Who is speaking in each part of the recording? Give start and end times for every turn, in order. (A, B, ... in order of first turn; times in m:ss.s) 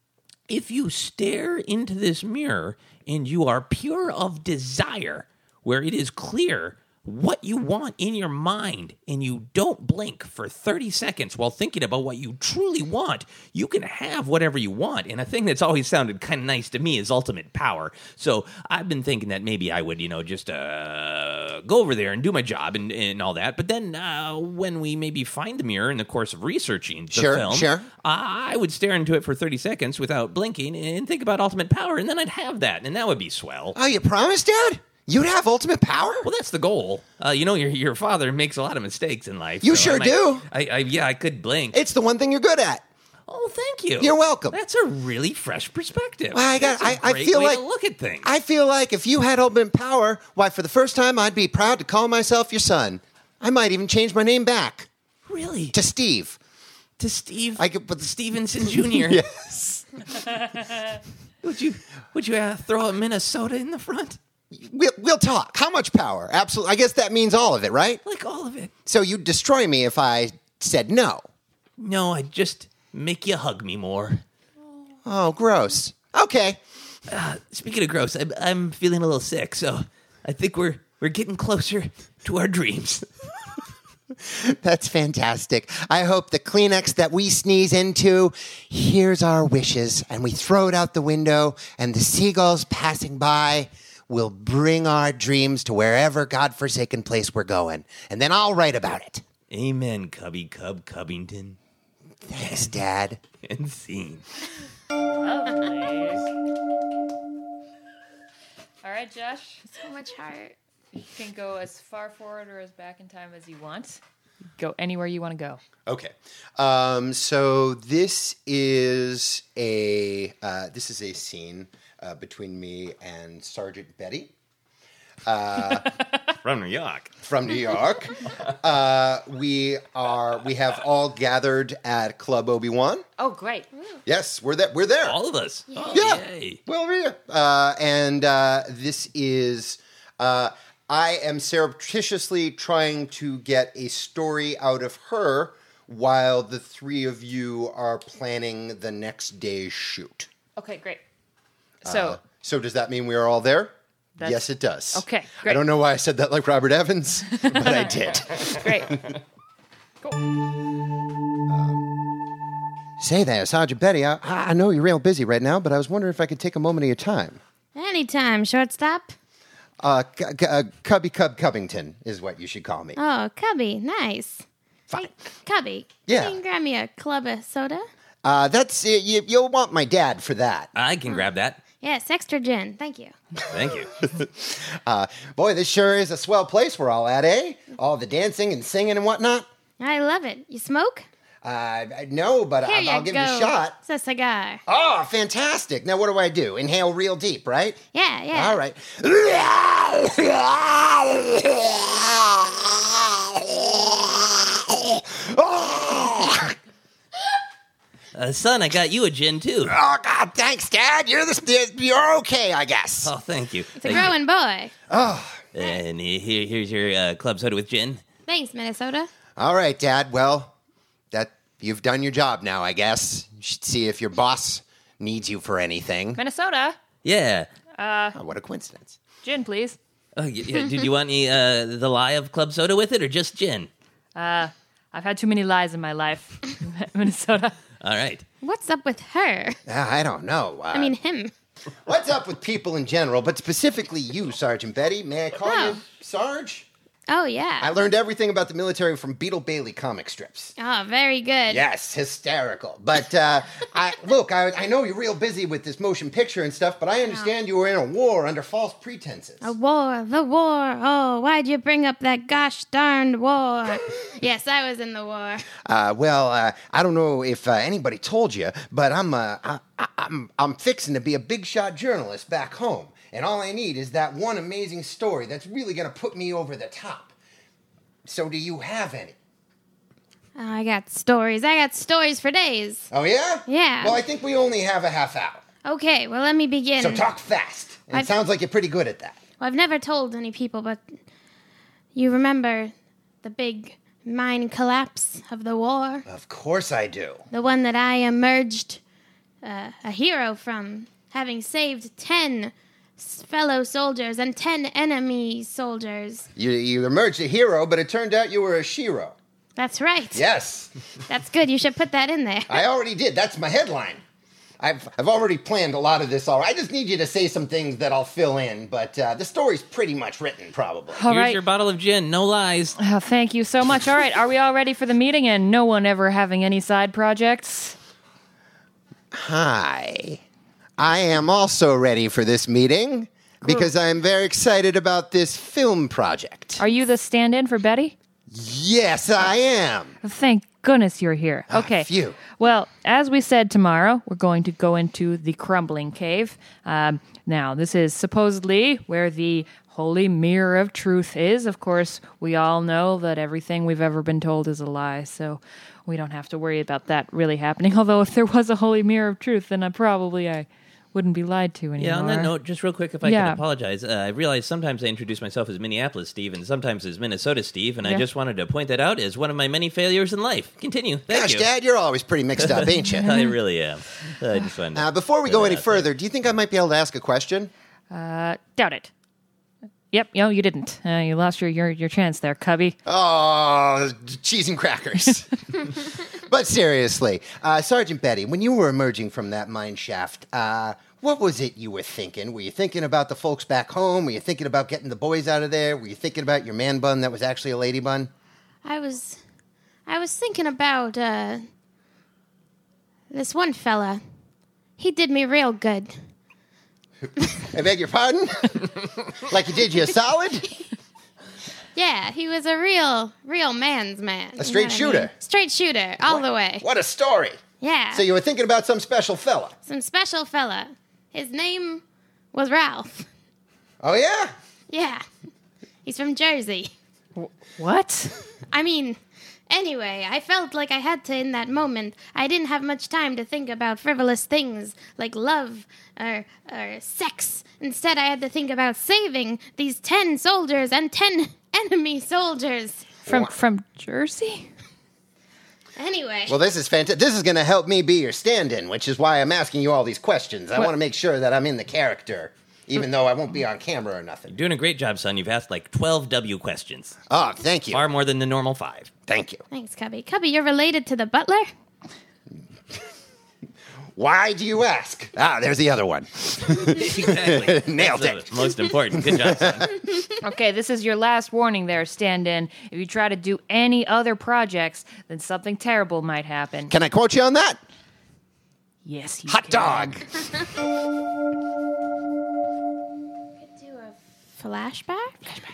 0:00.5-0:33.8 A
0:27.1-0:27.9 B
0:33.7-0:36.3 B
0:36.2-0:41.8 A
0:39.6-0:40.4 B
0:41.7-0:42.8 B
0:43.3-0:48.3 A
0:44.0-0:44.6 B
0:46.3-0:47.6 B
0:48.2-0:54.9 B
0:55.3-0:55.8 A
0:55.7-0:56.4 B
0:57.0-0:59.2 A
0:57.6-0:58.1 B
0:58.7-0:59.9 B
1:01.4-1:04.2 A
1:04.5-1:08.0 B
1:08.0-1:08.7 A
1:08.9-1:11.2 B
1:11.8-1:14.2 A
1:15.0-1:16.6 B
1:17.1-1:23.1 A
1:24.3-1:39.2 B
1:39.5-1:41.6 A
1:42.3-1:43.2 B
1:42.4-1:42.7 A
1:43.4-1:44.2 A
1:45.0-1:46.2 C
1:48.8-1:49.6 C
1:49.7-1:50.6 D
1:50.9-1:54.0 C
1:54.6-1:55.6 C
1:55.9-2:04.3 B
2:05.3-2:05.9 B
2:06.3-2:07.1 A
2:07.2-2:13.0 B
2:13.2-2:13.7 C
2:14.1-2:15.2 B
2:15.0-2:16.6 A
2:15.7-2:16.0 D
2:15.9-2:30.3 B
2:30.6-2:31.0 C
2:31.8-2:39.1 B
2:31.8-2:32.2 C
2:34.2-2:35.6 C
2:37.3-2:39.0 C
2:41.5-2:41.8 B
2:43.0-2:47.4 B
2:47.8-2:49.1 D
2:49.8-2:53.0 B
2:53.0-2:57.9 D
2:56.1-2:56.4 B
2:58.2-3:00.7 B
3:00.8-3:01.6 A
3:01.8-3:03.1 D
3:03.5-3:03.9 A
3:04.0-3:09.5 B
3:09.8-3:11.1 D
3:11.4-3:13.8 B
3:12.6-3:14.6 D
3:14.7-3:17.8 B
3:17.9-3:18.6 D
3:18.3-3:26.6 B
3:28.1-3:29.8 A
3:29.6-3:33.1 B
3:33.0-3:34.1 A
3:33.8-3:34.7 D
3:34.9-3:35.5 B
3:35.6-3:38.0 A
3:38.3-3:39.1 D
3:39.4-3:40.5 B
3:41.1-3:46.2 B
3:46.2-3:46.8 C
3:47.0-3:47.5 A
3:47.8-3:48.2 C
3:48.2-3:49.0 B
3:49.2-3:49.8 C
3:50.2-3:53.7 A
3:54.2-3:57.6 C
3:57.8-3:58.2 A
3:58.4-3:59.6 D
3:59.7-4:00.9 B
4:00.7-4:01.3 D
4:01.9-4:06.7 B
4:05.4-4:05.8 D
4:07.1-4:07.7 D
4:07.6-4:10.5 B
4:10.6-4:11.6 D
4:11.5-4:19.5 B
4:19.4-4:25.5 D
4:25.6-4:37.1 B
4:38.0-4:39.2 B
4:40.4-4:42.9 D
4:42.9-4:45.4 B
4:43.5-4:44.0 D
4:45.6-4:47.0 D
4:46.8-4:49.2 B
4:49.4-4:50.9 D
4:52.0-4:52.7 D
4:53.2-4:56.0 D
4:56.1-4:57.2 B
4:57.3-4:58.8 D
4:59.4-5:06.3 D
5:06.4-5:09.2 B
5:09.6-5:10.2 D
5:10.1-5:10.7 B
5:11.1-5:12.6 D
5:12.5-5:14.0 B
5:14.6-5:21.0 B
5:20.9-5:21.4 C
5:21.1-5:22.8 A
5:22.8-5:27.8 C
5:29.1-5:30.2 B
5:30.8-5:36.6 B
5:36.6-5:38.0 C
5:38.3-5:39.9 B
5:40.0-6:02.3 C
5:41.5-5:42.2 B
6:01.8-6:11.5 A
6:03.0-6:03.4 C
6:11.1-6:13.1 B
6:12.4-6:15.9 A
6:13.0-6:13.4 C
6:14.8-6:17.5 B
6:17.9-6:18.9 C
6:19.9-6:22.8 C
6:22.9-6:38.1 B
6:38.6-6:39.2 D
6:39.9-6:41.4 D
6:43.1-6:44.0 D
6:44.8-6:45.9 D
6:47.4-6:50.5 B
6:51.8-6:56.7 D
6:54.4-6:55.1 B
6:56.0-6:57.4 B
6:57.6-6:58.0 D
6:57.9-6:59.6 B
6:59.7-7:01.8 D
7:02.3-7:03.1 D
7:03.8-7:04.3 B
7:04.7-7:05.0 D
7:05.8-7:06.7 D
7:07.2-7:08.2 C
7:08.5-7:22.9 D
7:23.1-7:24.5 C
7:23.1-7:23.3 B
7:25.8-7:26.4 D
7:26.3-7:34.4 B
7:34.3-7:37.0 A
7:37.1-7:37.8 B
7:37.7-7:38.9 A
7:39.1-7:39.4 B
7:39.5-7:41.5 D
7:44.0-7:49.8 B
7:46.6-7:49.7 A
7:50.2-7:56.7 C
7:56.7-7:57.6 B
7:58.8-8:00.0 C
7:59.3-8:00.1 B
8:03.4-8:05.2 D